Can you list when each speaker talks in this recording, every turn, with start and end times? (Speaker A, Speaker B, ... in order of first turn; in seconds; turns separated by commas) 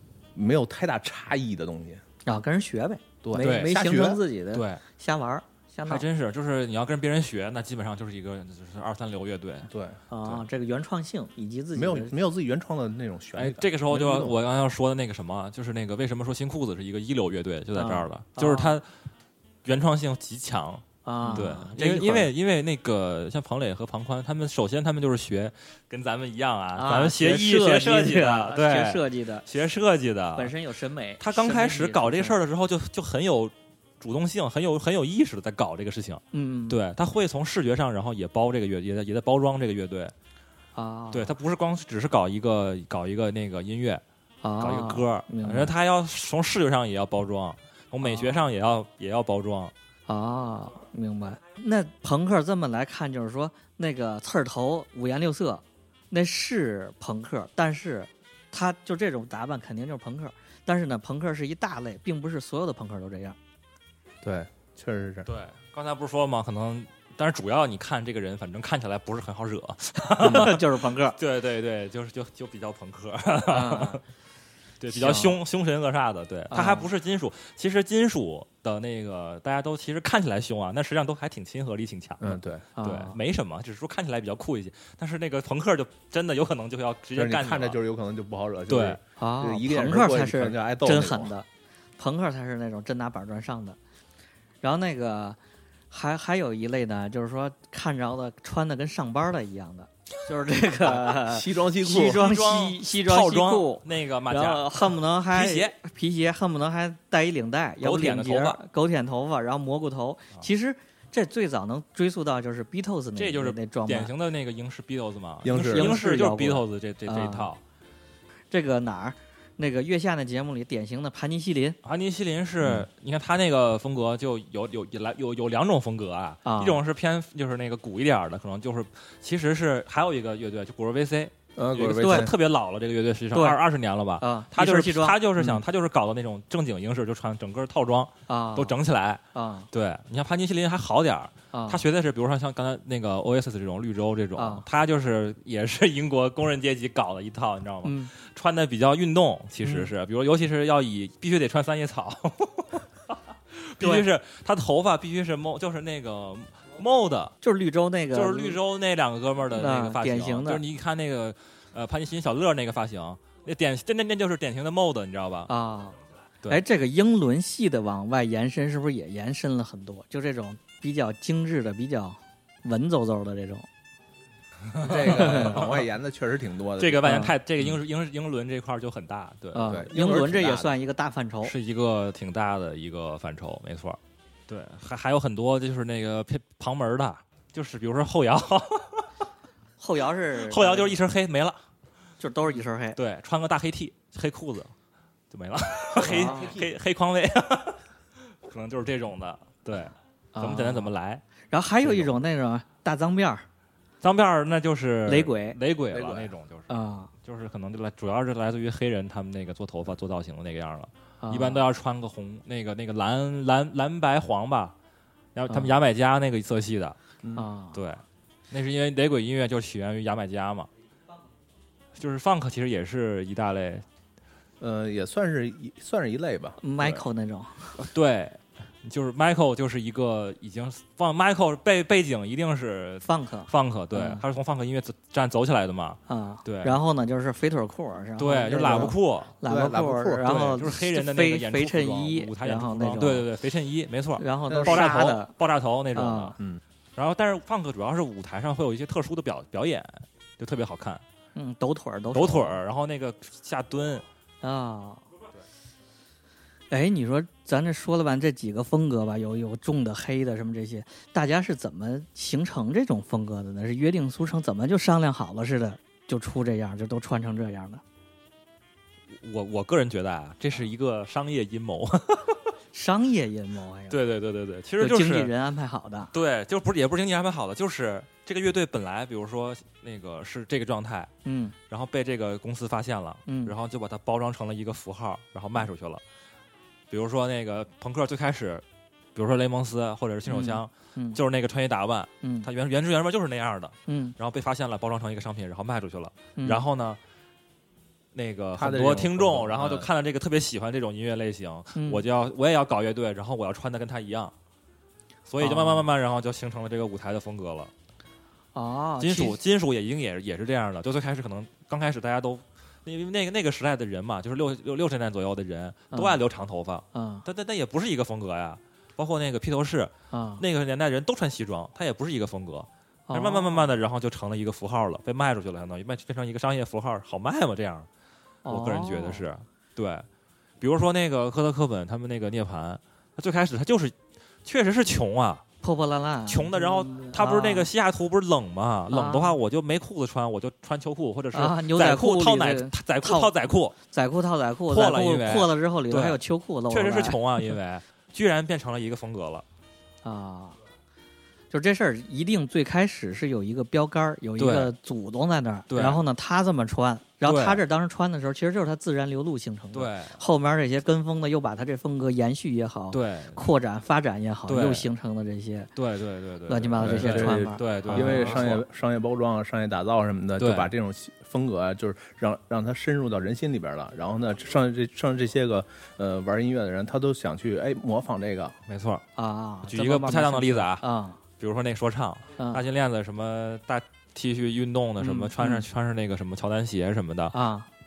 Speaker A: 0.3-2.0, Speaker B: 2.2-6.0, Speaker A: 3.2-4.2, Speaker C: 3.4-3.7, Speaker C: 4.5-4.8, Speaker C: 5.8-9.7, Speaker A: 9.7-10.0, Speaker B: 10.1-12.1, Speaker A: 11.7-14.4, Speaker C: 13.3-18.9, Speaker B: 17.7-18.8, Speaker C: 19.6-30.5, Speaker B: 21.0-22.3, Speaker A: 21.2-21.5, Speaker B: 26.7-29.5, Speaker B: 30.4-32.4, Speaker C: 31.2-40.1, Speaker B: 36.3-36.8, Speaker B: 40.7-41.3, Speaker C: 41.1-44.0, Speaker B: 44.4-45.7, Speaker C: 44.6-49.7, Speaker B: 48.0-48.4, Speaker B: 50.1-63.4, Speaker A: 64.2-65.3, Speaker C: 65.2-74.0, Speaker B: 70.2-71.2, Speaker B: 73.5-74.0, Speaker C: 74.8-87.8, Speaker B: 74.9-75.4, Speaker B: 76.5-76.9, Speaker A: 82.2-82.6, Speaker B: 82.8-83.2, Speaker A: 87.1-91.3, Speaker C: 88.7-89.0, Speaker B: 89.2-91.5, Speaker B: 92.0-93.8, Speaker B: 94.6-95.4, Speaker B: 95.9-114.1, Speaker A: 101.1-102.2, Speaker C: 101.9-105.8, Speaker C: 107.8-108.6, Speaker C: 113.2-117.6, Speaker A: 115.4-116.0, Speaker B: 115.7-117.5, Speaker B: 118.5-121.8, Speaker C: 121.8-157.3, Speaker B: 126.4-126.8, Speaker A: 131.6-132.3, Speaker B: 131.9-132.3, Speaker B: 133.3-133.6, Speaker B: 134.2-135.2, Speaker B: 138.3-138.8, Speaker B: 139.3-139.7, Speaker B: 141.5-141.8, Speaker B: 144.4-144.7, Speaker B: 147.8-148.1, Speaker B: 149.6-149.9, Speaker B: 153.8-154.0, Speaker B: 157.4-158.6, Speaker C: 158.1-165.5, Speaker B: 159.5-160.6, Speaker B: 165.5-173.7, Speaker C: 174.7-175.7, Speaker A: 174.8-177.8, Speaker B: 175.0-175.6, Speaker C: 176.8-179.8, Speaker B: 177.0-177.3, Speaker B: 179.5-181.5, Speaker A: 179.7-180.8, Speaker C: 181.4-189.1, Speaker B: 189.8-191.0, Speaker C: 190.4-191.6, Speaker B: 192.2-193.0, Speaker C: 192.9-194.7, Speaker C: 195.3-201.2, Speaker B: 196.0-196.5, Speaker A: 196.0-196.7, Speaker B: 200.3-200.9, Speaker B: 201.5-203.4, Speaker C: 201.8-202.2, Speaker C: 204.0-206.7, Speaker B: 205.1-205.6, Speaker A: 205.9-206.3, Speaker B: 206.7-207.1, Speaker C: 207.2-214.7, Speaker B: 211.2-211.6, Speaker C: 215.3-217.0, Speaker B: 215.5-215.7, Speaker B: 217.3-217.8, Speaker C: 217.7-220.7, Speaker C: 221.9-223.8, Speaker A: 224.6-226.9, Speaker B: 226.6-227.8, Speaker C: 227.8-236.8, Speaker B: 233.0-234.2, Speaker B: 236.1-243.2, Speaker C: 238.2-239.3, Speaker A: 238.6-238.9, Speaker A: 239.4-240.6, Speaker C: 240.5-246.4, Speaker B: 244.2-245.3, Speaker A: 244.5-245.1, Speaker B: 245.9-246.3, Speaker C: 246.9-251.0, Speaker B: 251.3-252.6, Speaker C: 252.1-254.0, Speaker B: 254.4-255.0, Speaker B: 256.7-267.8, Speaker C: 269.1-272.5, Speaker B: 272.7-274.0, Speaker C: 273.9-275.3, Speaker B: 274.8-276.1, Speaker C: 276.1-281.1, Speaker B: 281.2-281.5, Speaker C: 281.7-286.0, Speaker B: 283.2-283.5, Speaker C: 286.9-288.6, Speaker C: 289.1-297.0, Speaker B: 290.3-291.2, Speaker B: 292.2-292.5, Speaker B: 293.9-294.1, Speaker B: 296.4-296.6, Speaker C: 298.1-304.3, Speaker A: 298.5-299.9, Speaker B: 301.8-302.0, Speaker C: 305.3-307.7, Speaker B: 305.4-305.9, Speaker B: 308.5-309.4, Speaker C: 309.0-327.9, Speaker B: 315.9-316.2, Speaker B: 316.9-317.2, Speaker B: 320.1-320.4, Speaker B: 323.1-323.7, Speaker B: 328.4-329.2, Speaker C: 328.4-330.1, Speaker C: 330.6-335.4, Speaker B: 335.6-337.7, Speaker C: 336.3-343.7, Speaker B: 338.9-339.4, Speaker B: 341.3-343.3, Speaker B: 343.9-347.2, Speaker C: 344.7-349.4, Speaker B: 350.0-350.6, Speaker B: 351.5-365.7, Speaker C: 354.4-354.7, Speaker C: 355.7-356.0, Speaker C: 357.2-357.6, Speaker C: 359.7-360.2, Speaker C: 362.9-363.4, Speaker C: 364.5-364.9, Speaker C: 365.8-368.6, Speaker B: 366.5-368.5, Speaker A: 366.8-378.6, Speaker C: 370.4-370.7, Speaker C: 378.7-379.0, Speaker B: 379.1-381.2, Speaker C: 379.7-380.8, Speaker C: 381.4-387.3, Speaker B: 385.0-385.6, Speaker B: 387.3-387.7